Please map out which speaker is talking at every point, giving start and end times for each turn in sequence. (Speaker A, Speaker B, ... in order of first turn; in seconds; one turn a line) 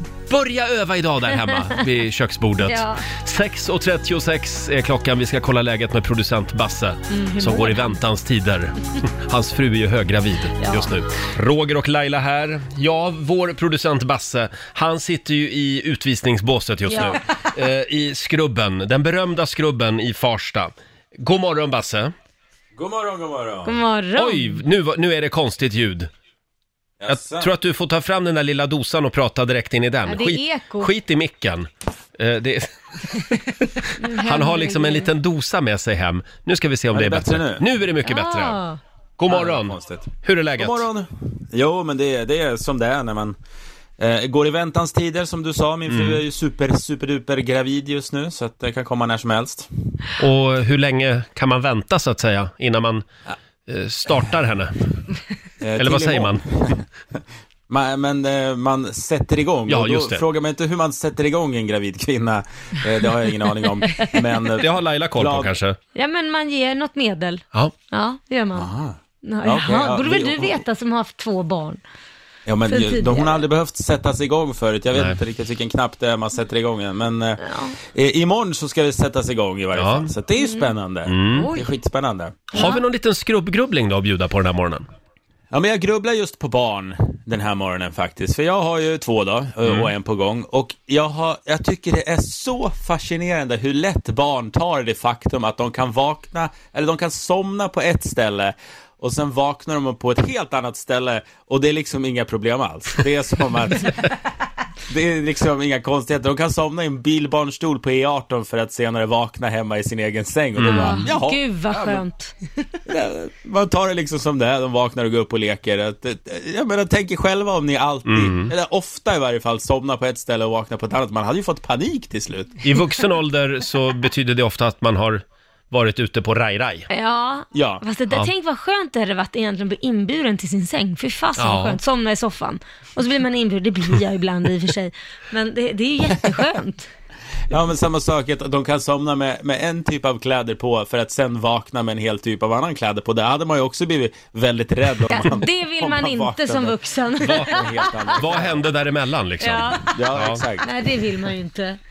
Speaker A: 0.3-22.1
Speaker B: 2.6-3.0
Speaker B: 7.1-8.0
Speaker B: 10.6-10.9
Speaker B: 16.9-17.2
Speaker C: 22.7-23.8
Speaker B: 23.6-24.6
Speaker A: 24.1-26.1
Speaker C: 27.0-27.5
Speaker A: 27.1-38.6
Speaker B: 30.1-30.9
Speaker B: 34.0-35.1
Speaker C: 36.9-37.6
Speaker B: 38.0-38.8
Speaker A: 39.2-40.9
Speaker C: 39.3-43.4
Speaker C: 44.0-49.7
Speaker A: 45.9-46.2
Speaker A: 50.2-53.0
Speaker A: 53.7-54.7
Speaker C: 55.6-65.5
Speaker A: 55.8-56.4
Speaker A: 59.7-60.2
Speaker A: 64.6-65.8
Speaker B: 65.9-68.7
Speaker C: 68.5-70.6
Speaker B: 69.2-71.8
Speaker C: 72.5-82.4
Speaker B: 72.7-73.4
Speaker B: 77.4-77.7
Speaker A: 79.7-80.1
Speaker B: 80.4-80.7
Speaker A: 81.0-81.5
Speaker A: 82.5-84.9
Speaker B: 82.5-82.8
Speaker C: 85.5-104.1
Speaker C: 104.9-112.0
Speaker A: 110.6-111.1
Speaker B: 110.7-112.3
Speaker C: 112.8-122.6
Speaker A: 118.1-118.5
Speaker A: 122.6-126.9
Speaker B: 126.9-136.9
Speaker C: 127.5-127.8
Speaker A: 131.4-131.8
Speaker C: 137.5-148.7
Speaker B: 145.1-147.8
Speaker A: 147.2-147.6
Speaker A: 148.1-150.4
Speaker B: 149.4-150.1
Speaker C: 149.9-150.7
Speaker B: 150.6-151.8